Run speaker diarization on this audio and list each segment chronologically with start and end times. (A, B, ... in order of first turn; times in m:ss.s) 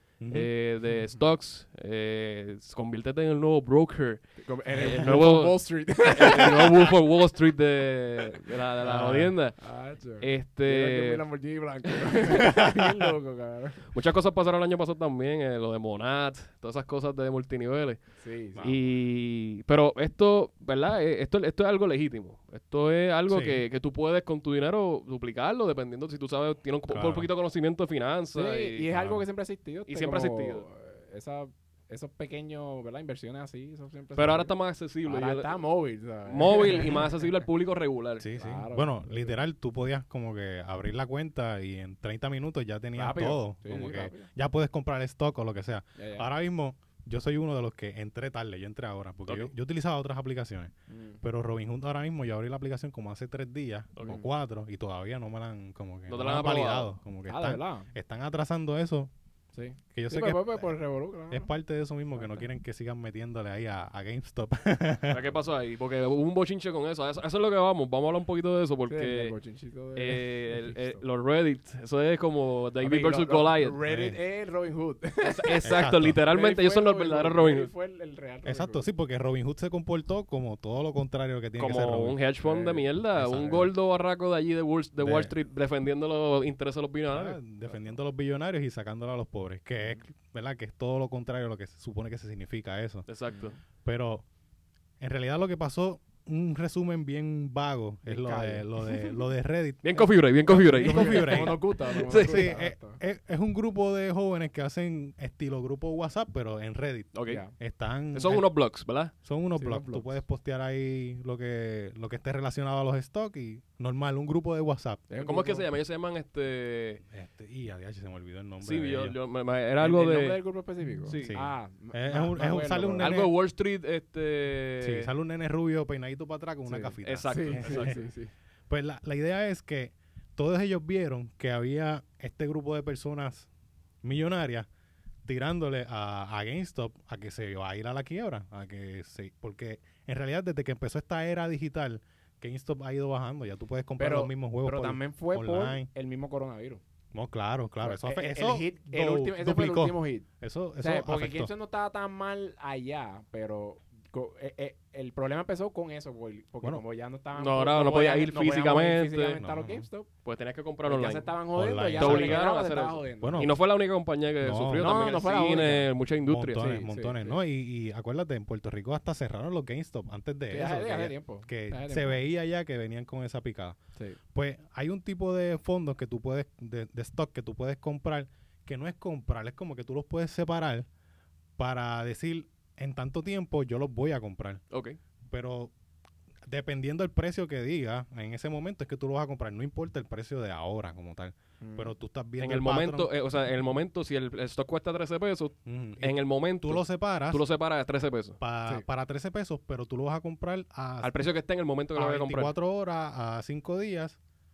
0:00.2-0:00.5 A
0:00.3-0:09.6 B
0:04.4-0:07.0 C
0:08.2-0:08.5 C
0:08.8-0:09.3 A
0:09.6-0:13.9 C
0:10.2-0:11.2 B
0:12.0-0:12.7 B
0:13.9-0:18.0 B
0:18.2-0:18.7 C
0:18.6-0:28.9 B
0:23.3-0:23.6 A
0:26.9-0:27.3 A
0:28.3-0:34.5 C
0:28.9-0:29.2 A
0:29.9-0:30.6 B
0:34.2-0:35.6 B
0:35.0-0:37.1 C
0:36.2-0:38.2 B
0:38.2-0:59.1 A
0:38.4-0:39.4 C
0:43.0-0:44.3 C
0:46.0-0:46.3 C
0:50.9-0:51.2 C
0:54.0-0:54.2 B
0:56.1-0:57.0 B
0:57.3-0:57.9 C
0:59.5-1:01.5 C
0:59.9-1:00.8 A
1:01.3-1:05.2 A
1:02.2-1:02.5 C
1:05.1-1:09.4 B
1:08.9-1:11.0 C
1:10.0-1:13.8 B
1:12.8-1:15.7 C
1:13.9-1:14.2 A
1:15.2-1:17.7 B
1:15.6-1:16.2 A
1:16.2-1:18.9 C
1:18.4-1:22.2 A
1:21.6-1:27.4 B
1:22.4-1:22.9 C
1:23.1-1:23.7 A
1:25.0-1:25.3 A
1:27.1-1:33.1 A
1:27.6-1:28.0 C
1:33.1-1:33.6 B
1:33.3-1:33.6 C
1:33.8-1:34.2 A
1:35.0-1:39.9 A
1:38.1-1:39.2 C
1:39.8-1:42.5 B
1:40.0-1:43.0 C
1:40.4-1:48.5 A
1:47.1-1:47.4 B
1:47.3-1:47.5 C
1:48.1-1:49.1 B
1:49.2-1:55.0 A
1:49.6-1:50.1 C
1:55.1-1:55.7 C
1:55.2-1:57.0 B
1:57.1-1:59.2 A
1:58.6-2:00.4 B
1:59.8-2:03.2 C
2:01.1-2:01.3 B
2:01.1-2:03.3 A
2:03.0-2:05.1 B
2:04.8-2:08.0 A
2:06.7-2:08.3 C
2:07.0-2:08.0 B
2:08.7-2:13.5 A
2:14.0-2:14.7 A
2:15.3-2:25.9 A
2:24.0-2:26.8 C
2:27.1-2:31.5 A
2:27.8-2:30.3 C
2:30.8-2:40.1 C
2:37.4-2:39.4 B
2:39.4-2:39.9 A
2:40.2-2:41.3 B
2:40.8-2:43.5 C
2:41.5-2:42.4 A
2:42.0-2:46.7 B
2:43.2-2:43.6 A
2:44.4-2:45.2 A
2:44.8-2:45.9 C
2:46.2-2:53.8 A
2:46.6-2:47.4 C
2:50.5-2:52.2 C
2:54.3-3:00.9 A
3:01.6-3:04.6 A
3:04.7-3:05.0 B
3:05.3-3:05.7 A
3:06.5-3:13.1 A
3:11.6-3:11.9 C
3:12.4-3:18.4 B
3:15.6-3:17.4 A
3:18.4-3:21.1 A
3:21.0-3:22.5 B
3:22.0-3:24.2 A